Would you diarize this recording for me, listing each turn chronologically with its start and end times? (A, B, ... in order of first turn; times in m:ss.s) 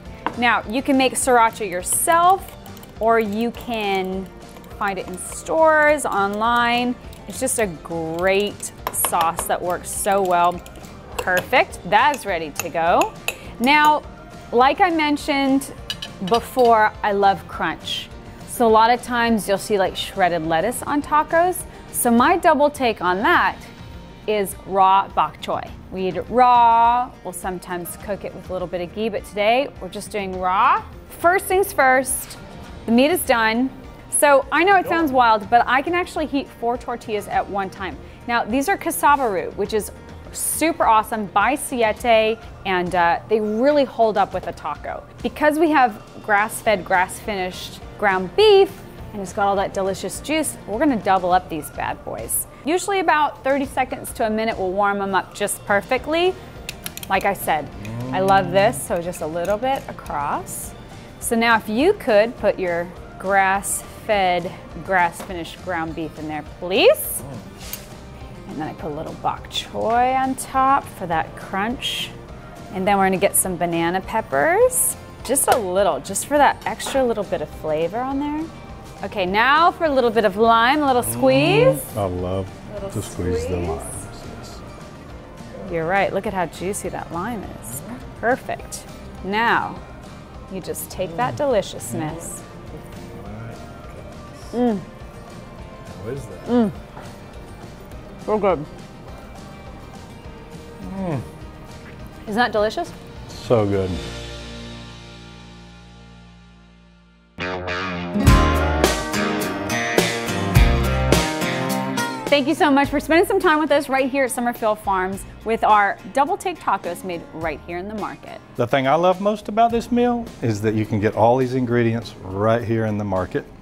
0:00.3-0:10.6 A
0:11.2-0:23.7 A
0:24.3-0:56.4 A
0:57.1-1:07.2 A
1:08.5-1:12.1 A
1:12.7-1:18.5 A
1:19.0-1:21.9 A
1:21.2-1:24.6 B
1:22.7-1:24.0 A
1:25.6-1:29.8 A
1:30.5-1:32.4 A
1:33.0-1:34.3 B
1:34.5-1:34.8 A
1:35.8-1:36.6 B
1:36.4-1:36.8 A
1:38.2-1:38.7 A
1:40.8-1:41.2 B
1:42.2-1:42.9 A
1:43.3-1:44.0 B
1:52.3-1:58.4 A
1:58.6-2:03.5 B